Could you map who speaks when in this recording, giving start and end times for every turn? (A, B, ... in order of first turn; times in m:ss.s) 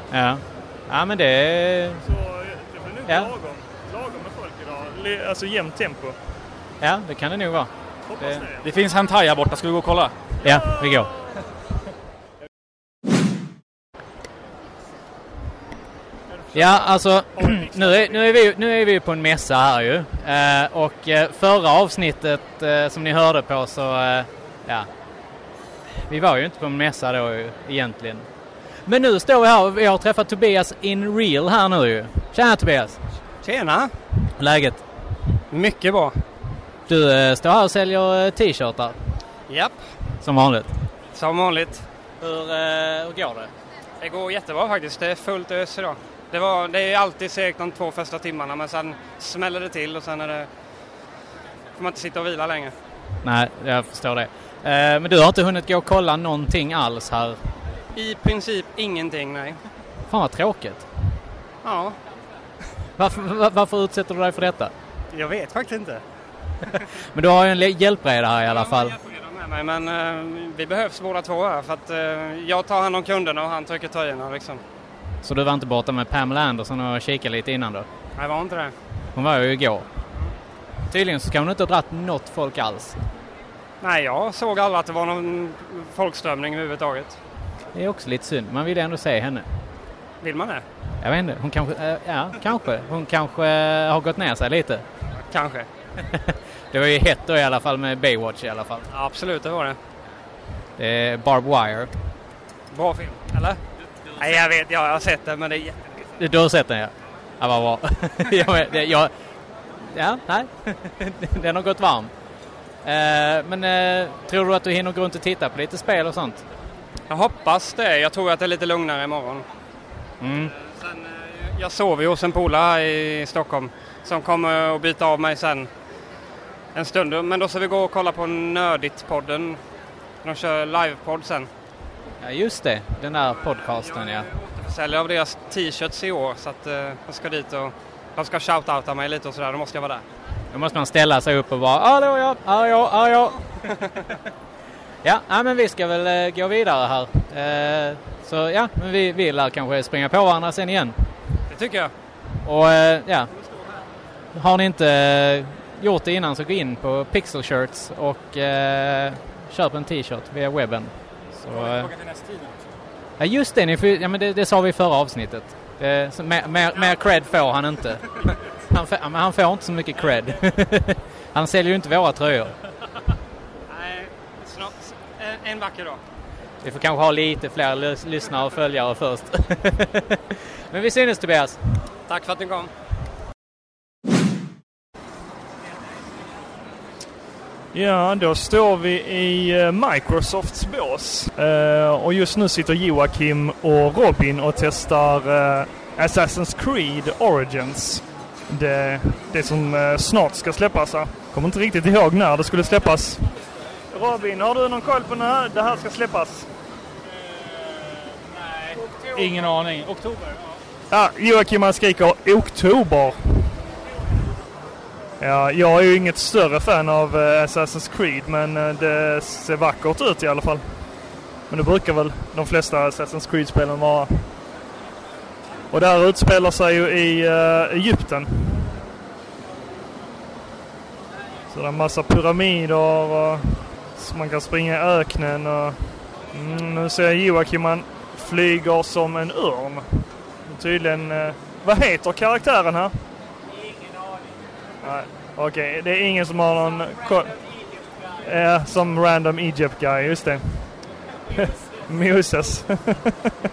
0:00.1-0:02.0 A
0:02.0-0:06.2 B
0:03.1-0:03.3 A
0:06.8-0:08.5 A
0:08.1-0:08.6 B
0:08.6-0:10.2 C
0:10.4-0:11.2 A
0:10.5-0:11.0 B
0:16.5-0:24.9 A
0:17.4-0:18.1 B
0:25.9-0:28.3 A
0:28.9-0:33.0 A
0:33.4-0:33.9 D
0:34.4-0:34.8 A
0:35.5-0:36.2 D
0:36.9-0:39.0 A
0:39.5-0:39.8 D
0:40.2-0:40.7 A
0:41.1-0:41.8 D
0:42.2-0:43.5 A
0:44.0-0:50.5 D
0:51.8-0:52.7 D
0:53.2-0:57.4 A
0:58.0-0:59.6 D
1:00.1-1:00.9 A
1:01.6-1:02.0 D
1:03.0-1:04.7 A
1:05.1-1:06.0 D
1:07.0-1:09.0 A
1:08.5-1:14.6 D
1:15.2-1:17.9 A
1:18.2-1:18.7 D
1:19.2-1:19.9 A
1:20.9-1:23.0 A
1:23.8-1:27.2 D
1:27.7-1:29.5 A
1:30.2-1:30.6 D
1:31.0-1:34.8 A
1:35.2-1:35.7 D
1:36.0-1:38.9 A
1:38.9-1:39.8 D
1:40.8-1:41.9 A
1:42.7-1:43.6 D
1:44.2-1:46.0 D
1:46.2-1:49.1 A
1:49.8-1:52.1 A
1:52.8-1:56.4 A
1:57.1-1:59.5 D
2:00.2-2:00.5 A
2:00.5-2:05.7 D
2:06.8-2:09.6 D
2:10.2-2:11.5 D
2:12.2-2:14.3 A
2:13.7-2:20.0 D
2:20.5-2:23.4 A
2:25.0-2:31.0 A
2:31.5-2:31.9 D
2:32.4-2:33.3 A
2:34.3-2:41.9 A
2:41.5-2:42.6 C
2:43.2-2:52.6 A
2:53.7-2:56.0 D
2:56.6-3:01.6 A
3:02.1-3:02.7 D
3:07.7-3:23.2 B
3:23.9-3:26.5 B
3:27.2-3:30.6 C
3:30.9-3:33.4 B
3:35.2-3:40.6 B
3:41.5-3:44.2 B
3:45.7-3:48.6 B
3:51.5-3:55.8 B
3:56.3-3:59.8 B
4:00.5-4:02.9 B
4:04.8-4:07.3 B
4:08.2-4:10.6 B
4:11.3-4:13.1 B